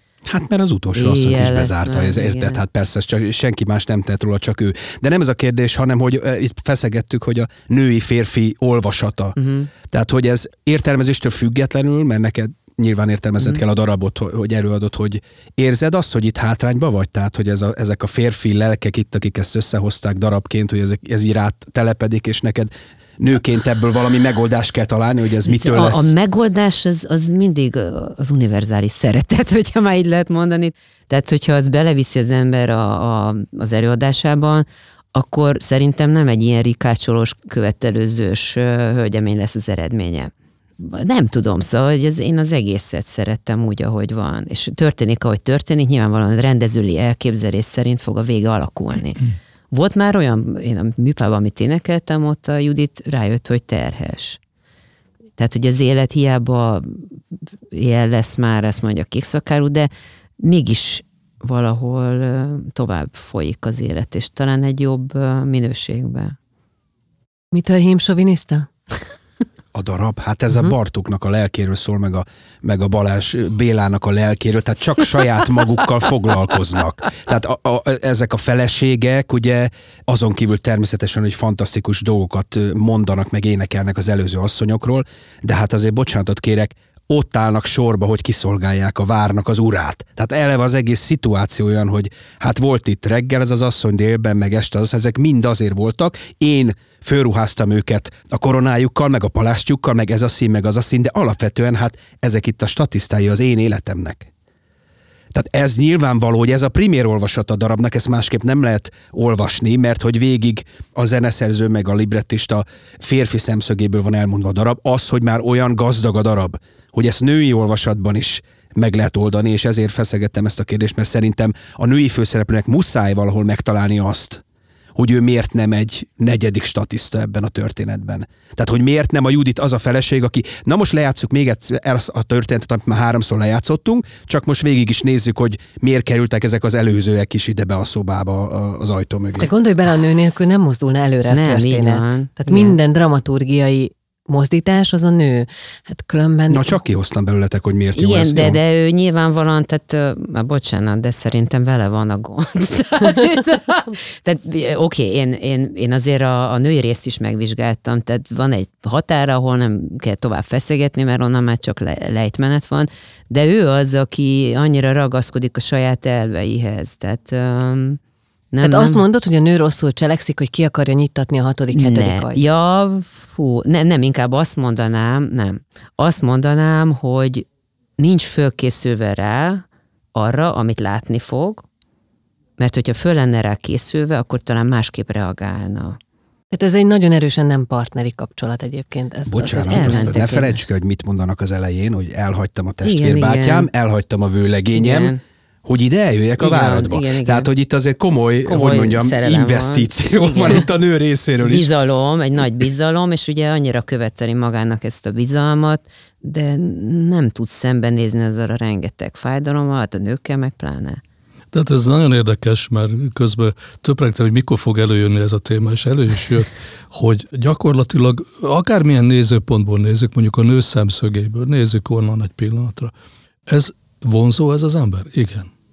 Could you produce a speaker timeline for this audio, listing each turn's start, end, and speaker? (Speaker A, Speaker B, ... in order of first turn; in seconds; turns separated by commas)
Speaker A: 0.2-26.1, Speaker B: 0.9-2.6, Speaker B: 9.3-9.7, Speaker B: 25.4-54.4, Speaker B: 55.4-57.1, Speaker B: 57.7-66.3, Speaker C: 67.5-68.7, Speaker A: 69.7-104.3, Speaker A: 105.3-124.4, Speaker A: 125.0-139.5, Speaker C: 139.4-146.8, Speaker B: 141.3-142.8, Speaker A: 146.5-148.6, Speaker B: 147.9-168.0, Speaker B: 168.5-169.0, Speaker C: 168.6-172.4, Speaker B: 171.7-177.4, Speaker B: 178.0-181.6, Speaker B: 182.6-186.0, Speaker C: 186.5-190.2, Speaker A: 189.3-195.1, Speaker B: 189.7-190.6, Speaker B: 192.8-193.7, Speaker B: 194.7-195.2, Speaker A: 195.6-201.7, Speaker B: 196.4-197.5, Speaker B: 198.4-200.7, Speaker B: 201.4-211.0, Speaker D: 211.5-222.9, Speaker D: 223.5-225.5